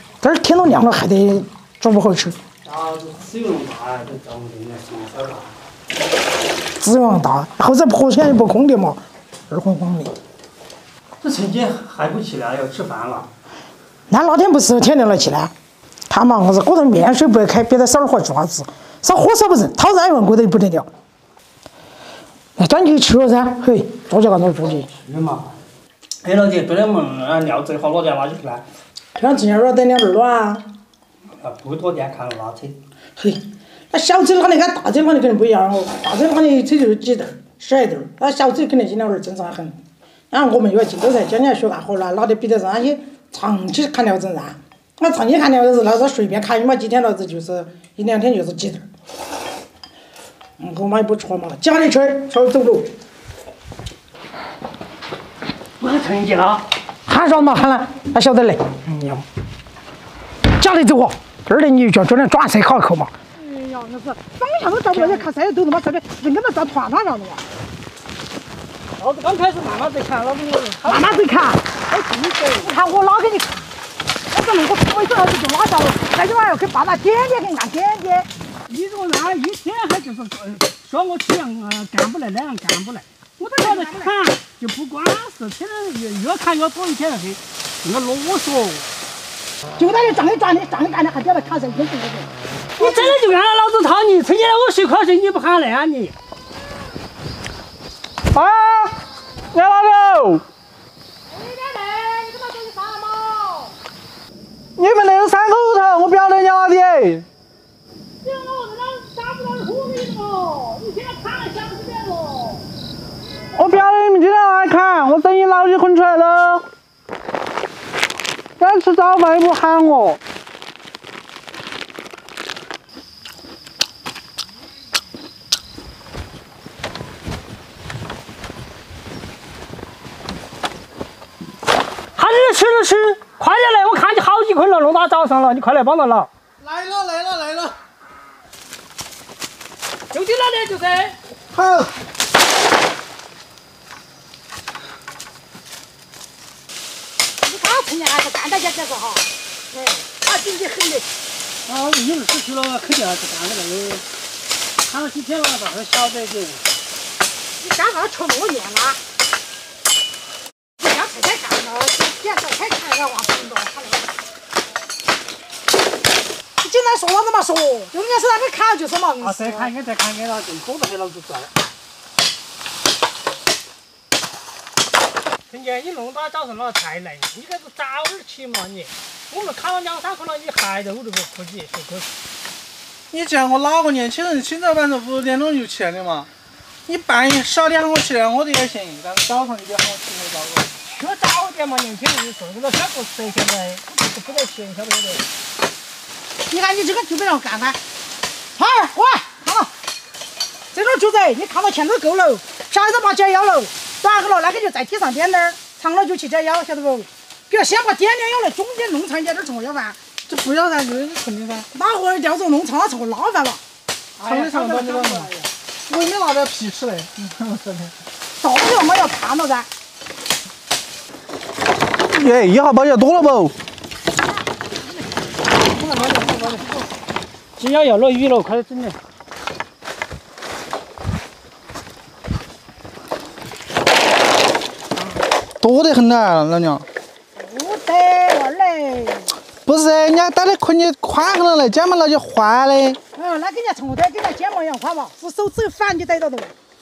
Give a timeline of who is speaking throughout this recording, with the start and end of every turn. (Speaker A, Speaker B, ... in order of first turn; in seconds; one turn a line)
Speaker A: 0.2-2.4
Speaker B: 2.7-5.5
Speaker A: 6.8-10.1
Speaker B: 11.2-13.3
Speaker A: 14.1-15.5
Speaker A: 16.1-20.9
Speaker A: 22.6-24.9
Speaker B: 25.0-25.5
Speaker B: 26.2-28.6
Speaker A: 29.1-30.6
Speaker B: 31.4-32.8
Speaker A: 33.9-39.8
Speaker A: 40.3-48.9
Speaker A: 50.6-52.9
Speaker B: 55.8-56.7
Speaker A: 57.1-59.2
Speaker A: 60.5-67.4
Speaker B: 64.9-65.2
Speaker B: 69.0-72.7
Speaker A: 70.8-71.6
Speaker A: 72.6-73.7
Speaker A: 74.3-78.3
Speaker B: 78.7-88.9
Speaker A: 83.5-84.1
Speaker A: 89.8-93.2
Speaker B: 92.8-96.2
Speaker C: 98.3-99.0
Speaker C: 99.5-100.4
Speaker A: 101.3-103.7
Speaker C: 104.8-107.3
Speaker B: 108.2-112.7
Speaker C: 113.5-116.6
Speaker C: 118.6-120.2
Speaker B: 132.2-136.3
Speaker C: 136.6-137.7
Speaker B: 140.1-141.2
Speaker C: 141.6-141.9
Speaker A: 147.4-151.1
Speaker B: 151.7-154.1
Speaker B: 154.8-156.6
Speaker A: 157.6-159.0
Speaker A: 160.8-164.1
Speaker A: 166.6-169.7
Speaker B: 169.2-171.5
Speaker B: 175.5-182.1
Speaker C: 183.1-186.3
Speaker C: 186.9-190.7
Speaker B: 190.9-195.2
Speaker A: 196.5-197.8
Speaker A: 198.6-199.7
Speaker A: 200.7-210.0
Speaker C: 210.3-211.7
Speaker A: 211.7-213.6
Speaker B: 214.2-215.5
Speaker C: 214.3-215.3
Speaker C: 215.9-217.9
Speaker A: 218.4-219.7
Speaker C: 222.2-223.5
Speaker B: 225.7-226.8
Speaker B: 227.6-229.0
Speaker C: 235.6-236.9
Speaker A: 237.4-239.4
Speaker C: 239.7-243.0
Speaker A: 243.1-246.5